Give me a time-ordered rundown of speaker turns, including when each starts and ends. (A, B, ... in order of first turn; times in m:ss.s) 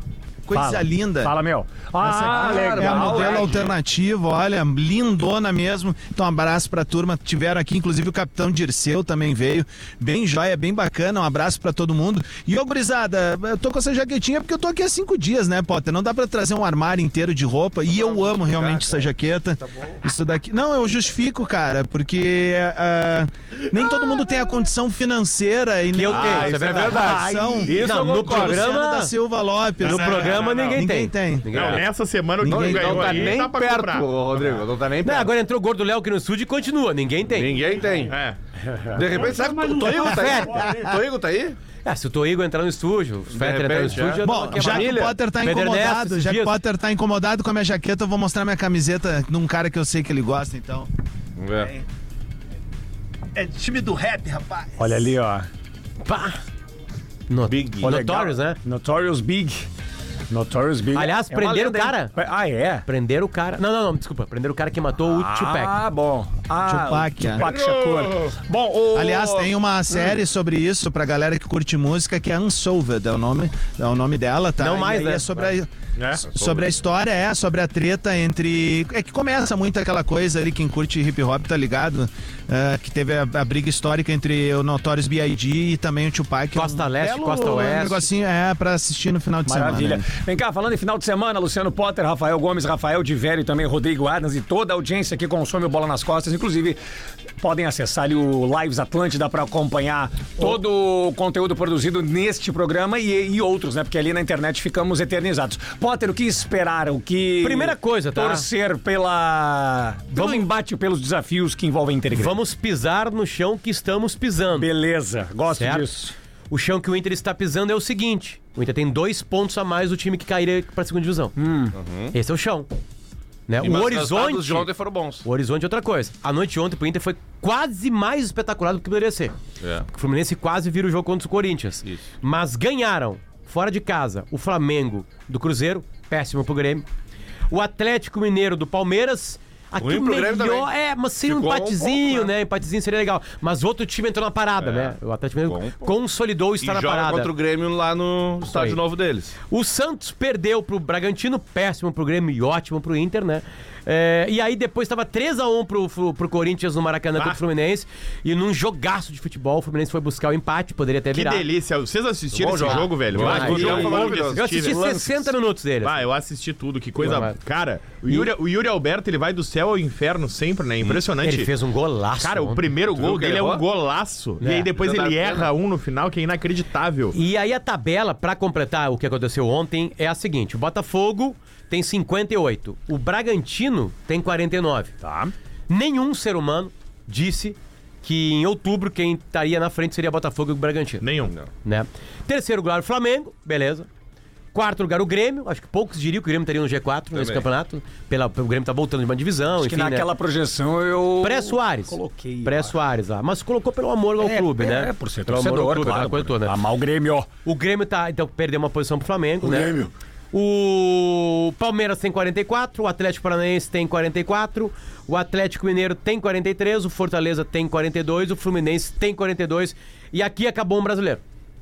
0:00.4-0:01.3 A
0:00.5-0:03.7 B
0:02.0-0:31.7 A
0:02.2-0:03.7 C
0:25.9-0:29.1 D
0:26.1-0:28.7 C
0:26.8-0:27.7 B
0:29.8-0:30.8 E
0:29.8-0:31.8 D
0:31.5-0:34.1 E
0:32.4-0:33.3 A
0:32.4-0:35.3 C
0:35.0-0:37.5 D
0:37.3-0:38.2 C
0:38.1-0:38.4 E
0:38.7-0:39.0 B
0:38.9-0:41.6 C
0:39.9-0:40.7 D
0:40.3-0:41.0 A
0:41.8-0:46.6 D
0:43.3-0:45.1 C
0:44.2-0:50.9 A
0:51.4-0:51.7 C
0:51.6-0:51.8 A
0:53.3-0:54.8 A
0:54.8-0:55.5 B
0:56.0-0:56.4 D
0:57.3-0:58.6 D
0:57.5-0:57.9 C
0:57.8-0:59.7 B
1:00.3-1:02.8 B
1:00.9-1:02.1 D
1:02.8-1:05.8 D
1:05.0-1:10.1 B
1:06.6-1:07.5 A
1:07.4-1:08.3 E
1:08.9-1:30.0 A
1:14.6-1:15.3 D
1:16.0-1:16.2 E
1:16.3-1:16.7 C
1:26.5-1:28.0 D
1:29.4-1:36.8 B
1:37.4-1:52.4 B
1:47.4-1:48.5 D
1:50.1-1:50.4 D
1:52.1-1:54.7 D
1:54.5-1:56.1 B
1:55.5-1:55.9 D
1:56.5-2:01.4 D
2:01.4-2:01.8 B
2:01.7-2:02.1 C
2:02.1-2:02.7 D
2:03.5-2:04.7 D
2:03.6-2:05.2 C
2:05.2-2:09.3 D
2:09.6-2:09.9 C
2:09.9-2:16.8 D
2:17.5-2:27.3 D
2:19.8-2:20.7 C
2:21.2-2:22.3 C
2:24.6-2:24.9 C
2:25.5-2:25.9 C
2:26.6-2:29.3 C
2:28.4-2:28.8 D
2:29.5-2:41.5 D
2:41.1-2:44.9 E
2:42.3-2:44.4 C
2:42.6-2:46.0 D
2:43.1-2:45.3 B
2:45.8-2:51.5 E
2:47.0-2:47.4 D
2:48.0-2:48.3 D
2:51.2-2:52.7 D
2:52.2-2:57.2 E
2:52.9-2:53.6 C
2:54.4-2:54.7 D
2:54.8-2:55.5 C
2:57.1-3:05.0 D
3:05.0-3:05.3 B
3:05.7-3:11.1 D
3:11.0-3:11.3 E
3:11.6-3:13.9 D
3:14.5-3:20.1 D
3:17.1-3:17.4 C
3:19.6-3:22.8 B
3:21.2-3:26.6 D
3:24.2-3:27.3 B
3:27.4-3:29.8 D
3:29.4-3:29.9 B
3:30.3-3:41.2 D